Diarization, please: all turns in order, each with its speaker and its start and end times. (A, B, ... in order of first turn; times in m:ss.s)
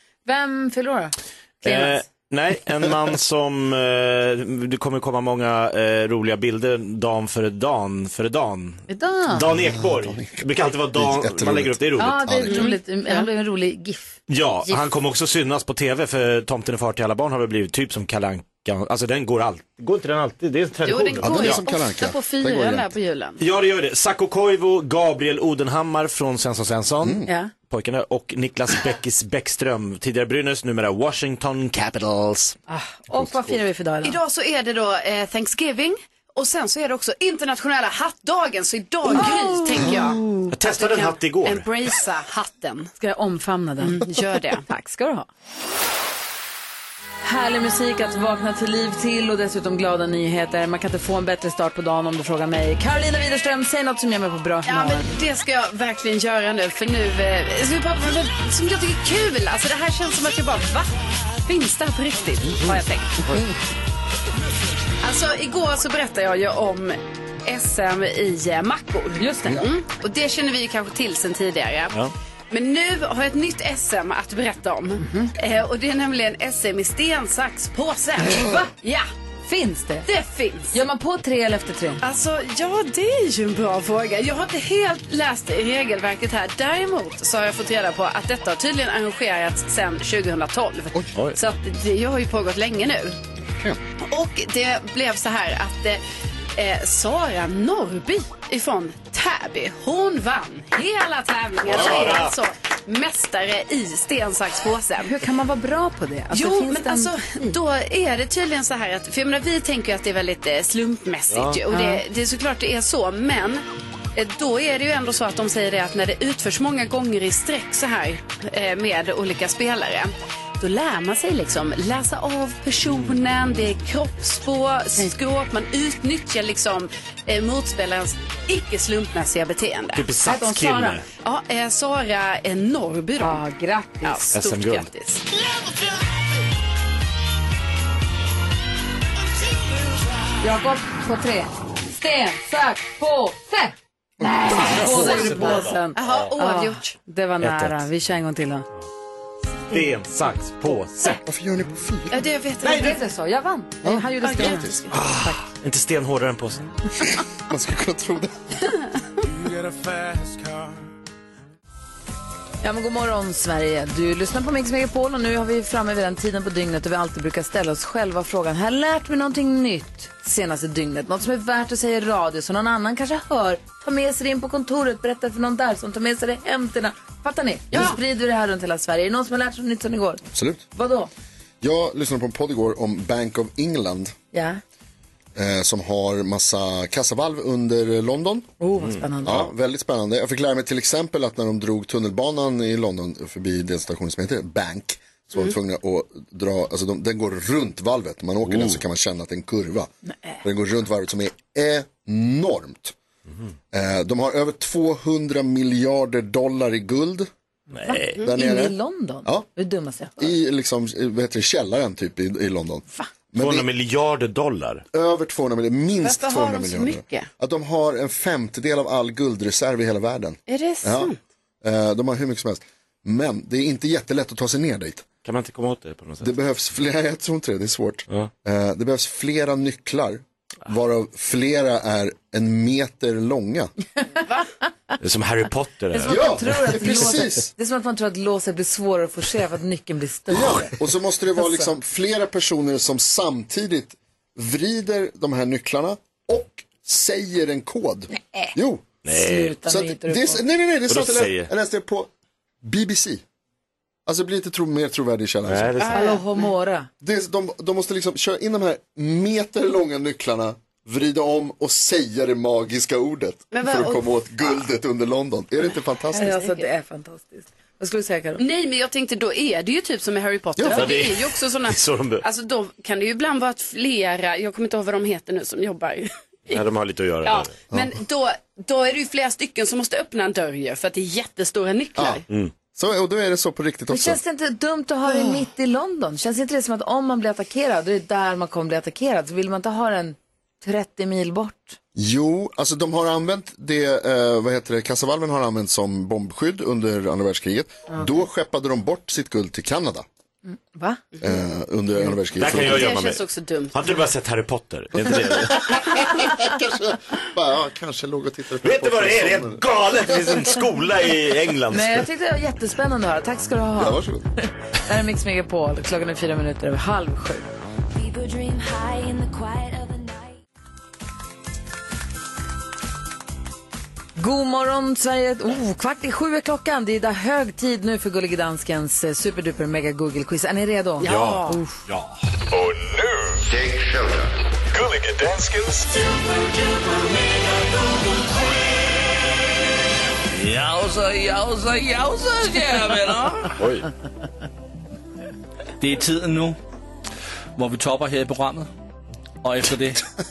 0:00.2-0:02.0 A
0:01.6-0:12.2 B
0:08.9-0:09.4 A
0:09.5-0:12.7 C
0:12.0-0:14.9 A
0:12.4-0:13.3 D
0:14.3-0:21.6 B
0:20.8-0:23.4 D
0:21.2-0:22.9 C
0:23.4-0:32.6 B
0:27.0-0:27.3 C
0:27.2-0:27.5 A
0:32.7-0:34.2 A
0:34.0-0:42.9 D
0:39.1-0:40.5 A
0:40.5-0:41.7 B
0:43.0-0:44.1 A
0:43.8-0:44.6 D
0:44.6-0:45.3 A
0:47.2-0:55.1 A
0:54.6-1:03.2 D
1:05.0-1:12.0 D
1:09.2-1:09.6 A
1:12.5-1:19.0 D
1:18.2-1:18.8 A
1:19.5-1:20.1 A
1:20.0-1:20.8 D
1:20.7-1:22.0 A
1:22.0-1:33.2 D
1:34.0-1:36.0 D
1:36.5-1:45.2 D
1:41.6-1:42.3 B
1:45.0-1:47.6 A
1:46.3-1:53.6 D
1:51.3-1:51.6 B
1:51.7-1:52.0 A
1:54.2-2:10.0 D
2:02.9-2:03.2 B
2:10.0-2:11.1 B
2:10.2-2:11.0 A
2:11.1-2:13.4 D
2:13.2-2:14.3 A
2:14.0-2:15.2 D
2:14.3-2:14.9 B
2:20.4-2:28.7 A
2:24.2-2:25.3 C
2:24.5-2:26.3 B
2:24.9-2:26.9 D
2:27.4-2:27.8 B
2:29.7-2:31.2 B
2:31.2-2:32.2 C
2:32.1-2:33.0 D
2:32.6-2:33.0 B
2:32.7-2:35.4 A
2:33.8-2:35.0 C
2:34.3-2:34.6 D
2:34.9-2:36.7 B
2:37.3-2:38.5 C
2:39.4-2:40.7 E
2:42.6-3:01.1 A
3:00.3-3:00.6 C
3:01.6-3:04.1 C
3:04.3-3:04.6 A
3:05.3-3:08.5 C
3:08.6-3:09.5 A
3:09.2-3:19.9 C
3:18.5-3:18.8 B
3:20.4-3:23.0 C
3:23.7-3:27.3 C
3:27.7-3:28.2 B
3:27.9-3:30.3 A
3:28.2-3:29.5 C
3:30.2-3:33.7 C
3:33.4-3:34.8 B
3:34.9-3:45.0 C
3:36.0-3:37.3 D
3:40.5-3:41.2 D
3:45.2-3:46.3 B
3:46.2-3:53.7 C
3:55.0-3:56.4 B
3:55.9-4:00.8 A
3:56.0-3:57.5 C
4:00.3-4:08.8 C
4:01.3-4:01.7 A
4:08.1-4:08.5 A
4:09.0-4:09.6 B
4:09.1-4:10.4 A
4:09.6-4:12.1 C
4:10.9-4:11.5 B
4:12.6-4:13.2 C
4:14.0-4:15.7 C
4:15.4-4:16.2 B
4:15.8-4:16.5 D
4:15.9-4:16.9 A
4:17.0-4:26.4 C
4:23.5-4:24.3 D
4:26.1-4:26.6 D
4:26.1-4:28.4 A
4:28.4-4:36.1 D
4:30.6-4:30.9 C
4:30.7-4:32.2 B
4:36.5-4:37.6 B
4:37.2-4:42.2 D
4:37.7-4:38.0 C
4:42.0-4:42.2 C
4:42.7-4:44.2 C
4:43.9-4:51.8 A
4:45.1-4:45.4 D
4:52.0-5:00.0 C
5:00.5-5:01.0 A
5:01.2-5:02.9 C
5:02.4-5:06.0 B
5:02.6-5:03.7 D
5:05.0-5:10.6 C
5:08.6-5:12.0 B
5:11.7-5:17.5 A
5:13.8-5:14.2 C
5:17.9-5:20.4 F
5:24.2-5:31.8 A
5:31.0-5:31.6 D
5:31.0-5:32.1 B
5:32.5-5:33.4 E
5:34.7-5:36.0 E
5:37.0-5:37.2 F
5:40.3-5:43.6 G
5:43.6-5:43.9 B
5:45.8-5:46.6 G
5:47.6-5:48.7 G
5:49.4-5:50.1 G